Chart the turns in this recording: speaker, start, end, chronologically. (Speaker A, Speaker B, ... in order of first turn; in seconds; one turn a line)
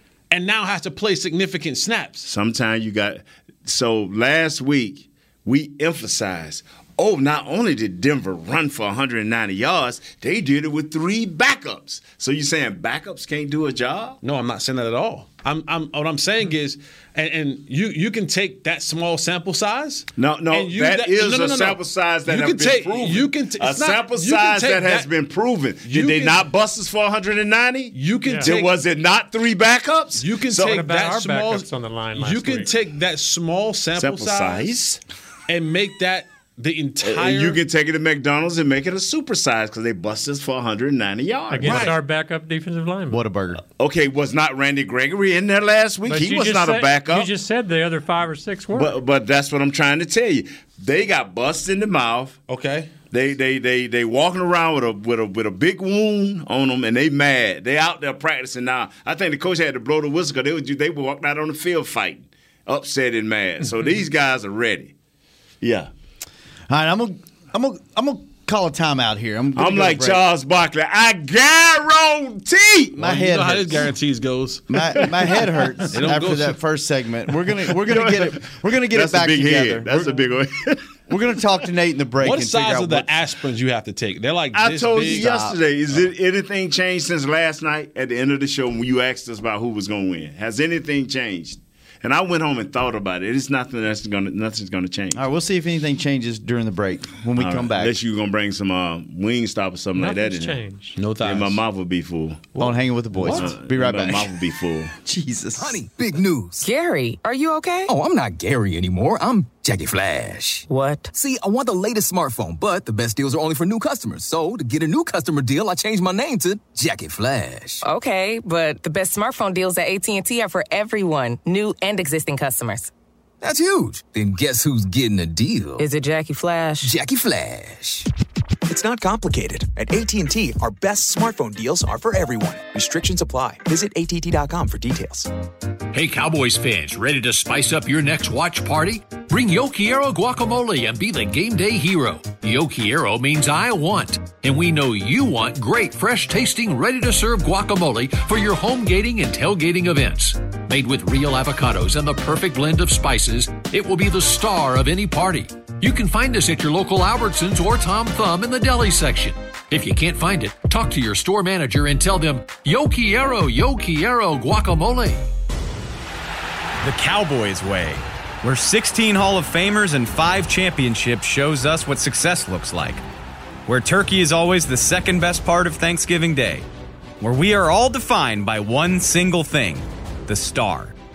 Speaker A: 0.3-2.3
Speaker B: 2.2-14.2
Speaker A: 14.2-25.1
Speaker B: 20.2-30.8
Speaker A: 25.8-26.4
Speaker A: 27.9-28.7
Speaker C: 28.2-28.5
Speaker A: 30.2-34.7
Speaker C: 30.6-32.7
Speaker B: 34.0-35.0
Speaker A: 35.5-37.6
Speaker B: 37.0-42.0
Speaker C: 41.5-43.2
Speaker A: 41.6-42.0
Speaker D: 43.1-43.6
Speaker B: 43.8-47.3
Speaker C: 46.1-49.0
Speaker B: 48.7-52.4
Speaker A: 52.5-52.9
Speaker B: 53.1-64.9
Speaker B: 65.6-65.9
Speaker D: 66.7-70.2
Speaker B: 69.5-73.0
Speaker D: 73.0-73.9
Speaker A: 73.0-76.6
Speaker D: 74.7-80.2
Speaker B: 77.9-80.8
Speaker D: 81.1-83.1
Speaker A: 82.2-85.3
Speaker B: 84.5-95.2
Speaker D: 85.0-85.6
Speaker D: 95.1-97.9
Speaker B: 97.4-100.6
Speaker C: 100.0-101.0
Speaker A: 101.0-101.6
Speaker B: 101.2-102.5
Speaker A: 102.5-103.5
Speaker D: 102.6-104.3
Speaker B: 103.3-104.9
Speaker D: 105.0-105.8
Speaker E: 105.5-106.6
Speaker F: 106.6-107.9
Speaker E: 107.9-117.8
Speaker F: 110.7-111.1
Speaker F: 117.8-122.9
Speaker E: 123.4-125.8
Speaker F: 125.8-126.9
Speaker E: 126.8-128.1
Speaker G: 128.7-135.3
Speaker H: 135.9-165.3
Speaker I: 166.8-173.0
Speaker I: 173.7-176.7
Speaker I: 177.2-180.9